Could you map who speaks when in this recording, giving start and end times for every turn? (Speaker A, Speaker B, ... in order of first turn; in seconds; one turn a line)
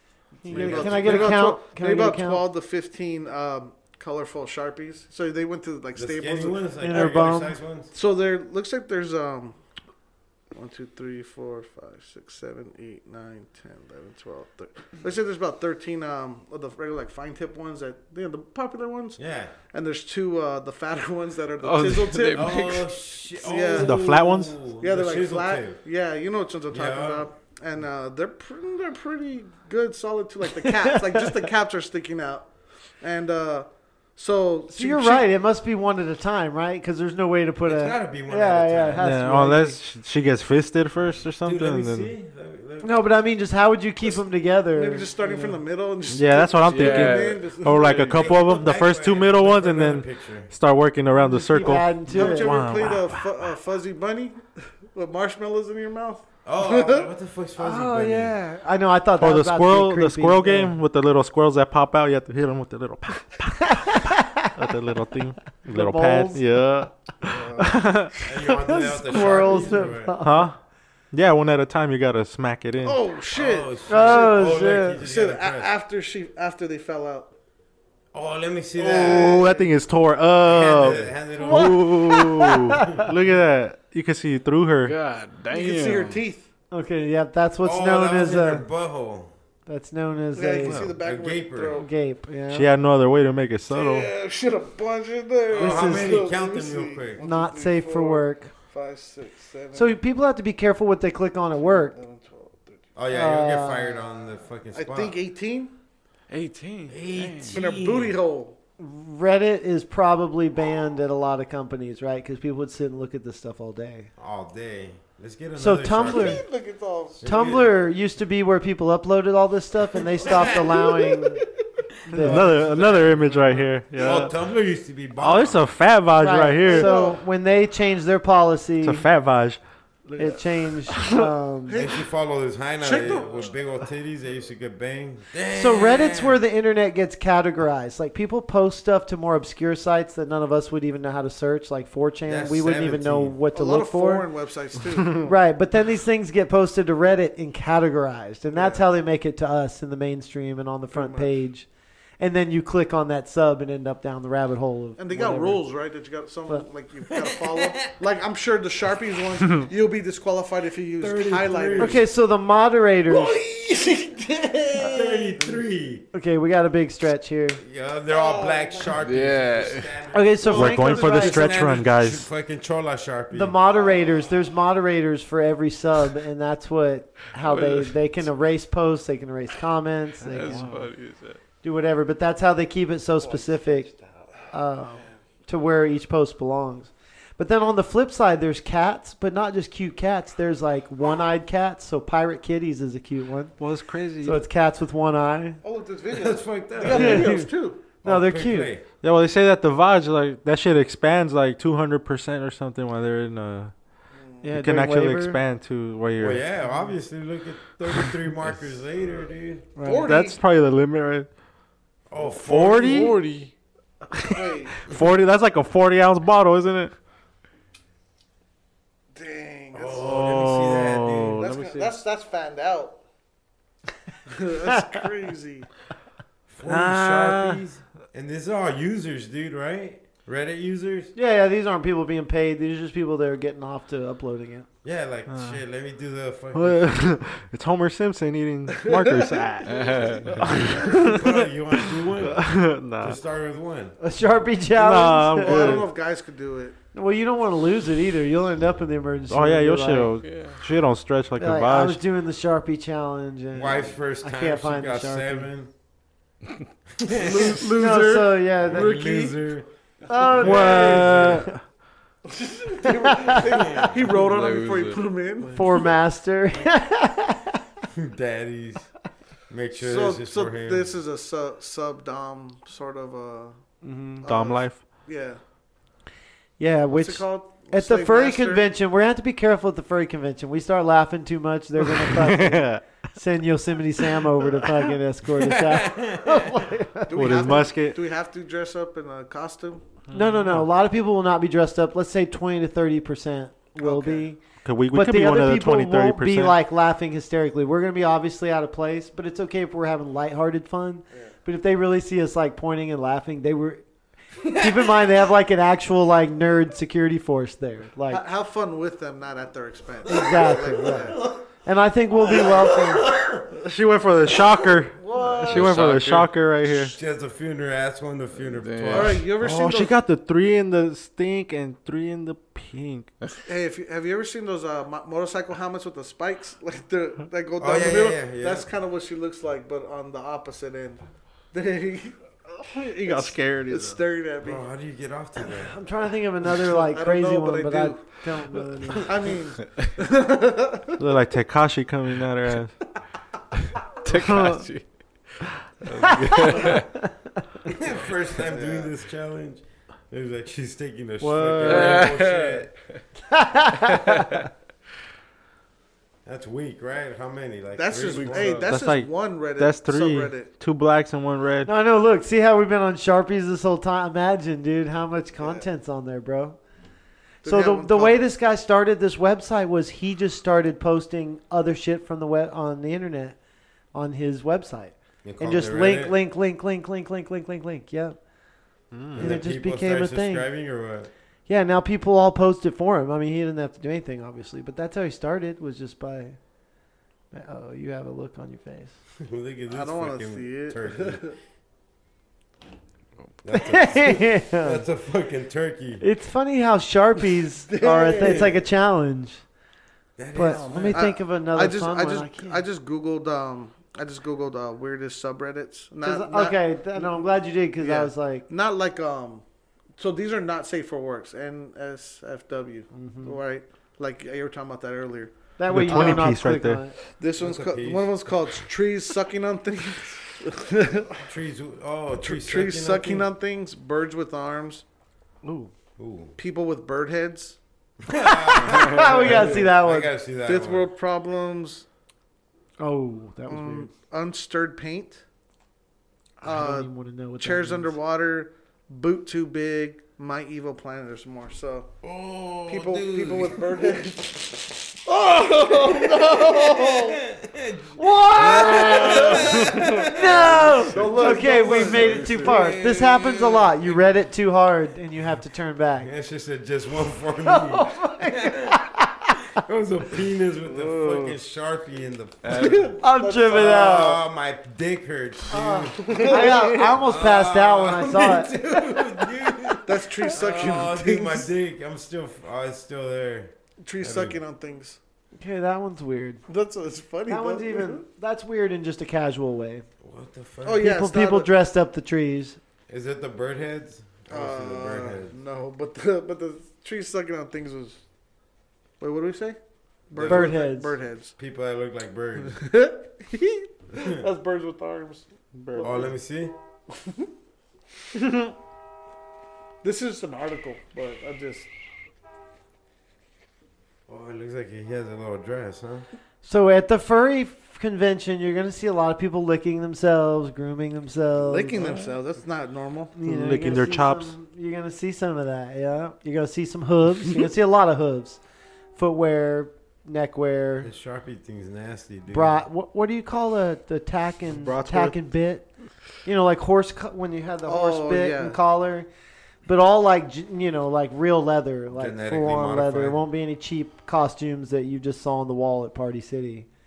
Speaker A: 0.4-2.4
Speaker B: 0.5-1.4
Speaker C: 0.5-7.2
Speaker B: 6.0-7.9
Speaker A: 6.8-7.6
Speaker C: 7.9-9.6
Speaker C: 10.5-22.7
Speaker B: 19.2-19.5
Speaker D: 21.6-22.9
Speaker B: 22.3-25.8
Speaker C: 23.4-24.0
Speaker E: 23.7-24.6
Speaker C: 24.8-35.3
Speaker B: 26.7-27.3
Speaker A: 30.6-31.2
Speaker A: 34.7-39.8
Speaker B: 37.6-39.1
Speaker E: 39.0-42.1
Speaker B: 41.4-43.0
Speaker A: 42.8-45.5
Speaker C: 44.0-48.1
Speaker E: 46.1-53.3
Speaker D: 46.6-48.2
Speaker B: 48.1-50.5
Speaker A: 51.1-52.5
Speaker C: 52.1-57.1
Speaker B: 56.4-58.4
Speaker A: 57.6-60.7
Speaker E: 59.2-68.1
Speaker A: 63.8-64.5
Speaker A: 65.6-66.5
Speaker C: 67.2-68.1
Speaker B: 68.2-70.2
Speaker A: 68.5-70.5
Speaker E: 70.2-70.6
Speaker E: 71.1-73.0
Speaker C: 72.8-77.3
Speaker B: 73.3-75.7
Speaker A: 73.9-75.0
Speaker B: 78.1-79.5
Speaker C: 78.8-79.7
Speaker E: 78.9-85.0
Speaker B: 80.4-81.8
Speaker A: 81.4-82.7
Speaker D: 84.8-86.2
Speaker C: 85.5-86.5
Speaker A: 86.7-88.7
Speaker B: 87.6-89.3
Speaker A: 89.7-90.9
Speaker C: 90.3-91.9
Speaker B: 90.7-91.8
Speaker A: 91.8-92.7
Speaker E: 92.5-94.1
Speaker C: 93.7-100.0
Speaker B: 95.5-97.2
Speaker A: 95.6-96.3
Speaker A: 97.2-98.5
Speaker A: 99.7-101.9
Speaker C: 101.6-102.8
Speaker B: 102.9-105.2
Speaker A: 103.1-104.1
Speaker C: 104.7-105.7
Speaker D: 106.3-107.6
Speaker B: 106.9-108.2
Speaker C: 107.5-108.6
Speaker A: 108.8-114.1
Speaker B: 114.2-116.4
Speaker A: 115.5-116.4
Speaker C: 116.0-117.2
Speaker B: 117.2-117.8
Speaker A: 117.2-121.4
Speaker B: 120.2-120.5
Speaker C: 120.3-121.2
Speaker A: 122.1-122.5
Speaker B: 122.1-125.7
Speaker E: 122.1-124.3
Speaker E: 125.2-126.9
Speaker A: 126.2-129.1
Speaker C: 126.6-127.2
Speaker E: 128.8-130.4
Speaker A: 130.2-131.8
Speaker C: 131.7-132.0
Speaker B: 131.7-136.4
Speaker C: 132.8-133.6
Speaker A: 135.5-144.3
Speaker B: 142.2-143.4
Speaker C: 143.5-145.3
Speaker A: 145.2-155.6
Speaker C: 148.5-148.8
Speaker C: 150.9-151.3
Speaker C: 155.0-162.0
Speaker B: 157.1-157.9
Speaker B: 161.0-162.1
Speaker A: 161.8-163.4
Speaker C: 163.1-165.1
Speaker B: 164.8-166.1
Speaker A: 164.8-165.4
Speaker A: 166.1-167.6
Speaker B: 167.6-173.6
Speaker C: 168.1-168.9
Speaker D: 168.9-170.0
Speaker A: 170.1-171.5
Speaker E: 170.5-172.3
Speaker A: 173.3-180.7
Speaker C: 173.7-174.3
Speaker D: 177.5-177.9
Speaker E: 180.2-180.9
Speaker D: 180.3-181.4
Speaker A: 181.6-183.9
Speaker D: 183.8-184.1
Speaker A: 184.5-193.6
Speaker E: 193.6-194.4
Speaker A: 194.2-195.6
Speaker C: 195.6-197.8
Speaker B: 196.1-197.4
Speaker A: 196.9-198.7
Speaker B: 198.0-198.8
Speaker E: 199.0-203.7
Speaker C: 204.1-204.4
Speaker A: 204.4-205.4
Speaker E: 204.5-206.4
Speaker B: 206.2-209.7
Speaker A: 209.8-210.0
Speaker C: 209.8-210.4
Speaker E: 210.0-211.3
Speaker B: 212.1-213.2
Speaker D: 212.2-213.5
Speaker E: 212.4-213.2
Speaker C: 214.2-214.9
Speaker E: 214.8-216.9
Speaker C: 219.1-220.2
Speaker B: 219.7-221.4
Speaker E: 219.9-221.9
Speaker C: 221.4-223.0
Speaker C: 224.3-225.7
Speaker B: 226.5-231.1
Speaker E: 226.7-227.6
Speaker A: 231.2-234.7
Speaker B: 234.8-237.0
Speaker E: 235.3-235.6
Speaker E: 236.5-241.5
Speaker C: 238.8-239.5
Speaker D: 239.7-240.4
Speaker B: 240.4-243.9
Speaker E: 242.0-243.2
Speaker A: 244.0-245.9
Speaker E: 244.8-245.9
Speaker C: 245.4-246.8
Speaker A: 246.9-250.1
Speaker E: 249.3-252.0
Speaker D: 250.2-250.6
Speaker A: 251.4-255.5
Speaker B: 253.5-255.7
Speaker B: 257.0-257.6
Speaker C: 257.1-259.4
Speaker A: 257.7-259.0
Speaker B: 258.6-261.5
Speaker A: 260.1-261.3
Speaker E: 260.4-261.6
Speaker C: 262.3-265.6
Speaker A: 262.8-263.4
Speaker B: 263.5-263.9
Speaker D: 264.1-265.2
Speaker A: 265.5-267.6
Speaker B: 267.9-268.9
Speaker B: 269.5-270.9
Speaker C: 269.8-273.6
Speaker A: 273.8-274.3
Speaker C: 274.2-275.4
Speaker E: 274.2-274.8
Speaker A: 276.6-287.5
Speaker C: 276.9-278.6
Speaker E: 282.1-282.8
Speaker B: 285.4-286.6
Speaker C: 287.1-289.8
Speaker E: 287.1-288.0
Speaker E: 290.1-290.7
Speaker A: 290.1-303.8
Speaker C: 293.8-294.3
Speaker E: 294.6-296.6
Speaker A: 304.4-308.2
Speaker C: 308.1-311.3
Speaker A: 310.1-313.1
Speaker B: 311.1-311.4
Speaker B: 312.2-313.5
Speaker E: 313.5-316.9
Speaker C: 314.9-315.6
Speaker D: 315.5-316.3
Speaker B: 315.5-316.0
Speaker B: 316.6-319.3
Speaker D: 318.4-319.3
Speaker C: 318.9-319.9
Speaker E: 319.3-323.1
Speaker C: 323.4-334.6
Speaker B: 327.6-328.7
Speaker E: 332.7-334.0
Speaker B: 334.4-335.8
Speaker A: 335.6-339.1
Speaker C: 336.6-338.2
Speaker C: 339.0-341.0
Speaker E: 341.0-342.7
Speaker D: 344.0-345.3
Speaker E: 344.1-344.6
Speaker D: 345.8-346.9
Speaker A: 346.2-346.8
Speaker B: 347.7-352.7
Speaker C: 348.5-348.8
Speaker E: 351.2-352.1
Speaker D: 351.6-352.8
Speaker A: 353.3-354.3
Speaker B: 356.2-358.7
Speaker C: 357.8-360.5
Speaker D: 358.1-358.7
Speaker E: 358.7-361.7
Speaker A: 361.6-366.6
Speaker C: 365.4-365.6
Speaker C: 367.4-368.2
Speaker A: 367.4-373.4
Speaker A: 373.9-378.2
Speaker B: 375.2-376.2
Speaker E: 378.9-379.4
Speaker A: 379.1-380.5
Speaker B: 379.1-381.1
Speaker A: 381.5-386.4
Speaker A: 387.3-388.9
Speaker B: 389.2-391.3
Speaker C: 389.7-391.4
Speaker B: 393.4-396.0
Speaker A: 393.5-394.8
Speaker A: 396.0-399.4
Speaker B: 397.7-398.6
Speaker C: 397.8-398.4
Speaker B: 400.2-401.1
Speaker A: 400.3-402.6
Speaker C: 400.9-409.4
Speaker A: 406.0-408.4
Speaker C: 410.0-415.3
Speaker A: 412.9-413.4
Speaker A: 415.6-417.0
Speaker E: 415.7-416.8
Speaker C: 415.9-416.3
Speaker C: 417.2-421.2
Speaker B: 417.3-418.3
Speaker B: 421.2-423.3
Speaker C: 422.2-424.8
Speaker A: 425.4-425.7
Speaker B: 426.0-426.4
Speaker C: 426.4-427.6
Speaker B: 428.0-430.9
Speaker A: 428.2-430.1
Speaker D: 428.7-429.5
Speaker C: 430.4-431.8
Speaker A: 432.8-433.9
Speaker C: 433.5-435.2
Speaker C: 436.4-441.9
Speaker A: 436.4-437.9
Speaker B: 442.0-444.1
Speaker C: 442.6-447.2
Speaker B: 445.5-454.0
Speaker A: 447.9-456.1
Speaker C: 448.8-449.6
Speaker D: 450.7-452.6
Speaker C: 451.8-452.2
Speaker B: 456.0-458.9
Speaker A: 457.4-459.3
Speaker B: 459.5-474.4
Speaker D: 460.7-461.3
Speaker D: 462.4-462.9
Speaker C: 462.5-464.1
Speaker A: 463.0-464.2
Speaker A: 465.5-468.6
Speaker C: 466.0-466.9
Speaker C: 468.7-469.0
Speaker C: 469.8-471.5
Speaker C: 473.8-475.0
Speaker A: 475.4-476.4
Speaker C: 476.5-478.0
Speaker A: 477.3-479.9
Speaker B: 480.0-480.9
Speaker C: 480.6-481.5
Speaker A: 480.8-482.6
Speaker B: 482.9-485.3
Speaker C: 484.3-488.0
Speaker C: 489.0-489.6
Speaker C: 490.1-491.3
Speaker B: 490.1-490.6
Speaker A: 490.3-490.9
Speaker B: 491.4-492.8
Speaker C: 492.5-496.1
Speaker B: 495.8-496.5
Speaker C: 499.8-501.7
Speaker B: 504.1-506.1
Speaker A: 506.4-512.1
Speaker C: 511.3-513.1
Speaker A: 513.1-518.4
Speaker E: 513.2-514.3
Speaker A: 518.9-520.9
Speaker B: 520.8-522.6
Speaker A: 522.3-525.7
Speaker E: 524.6-525.2
Speaker A: 526.2-529.1
Speaker C: 527.6-528.6
Speaker A: 529.6-536.7
Speaker B: 531.9-533.2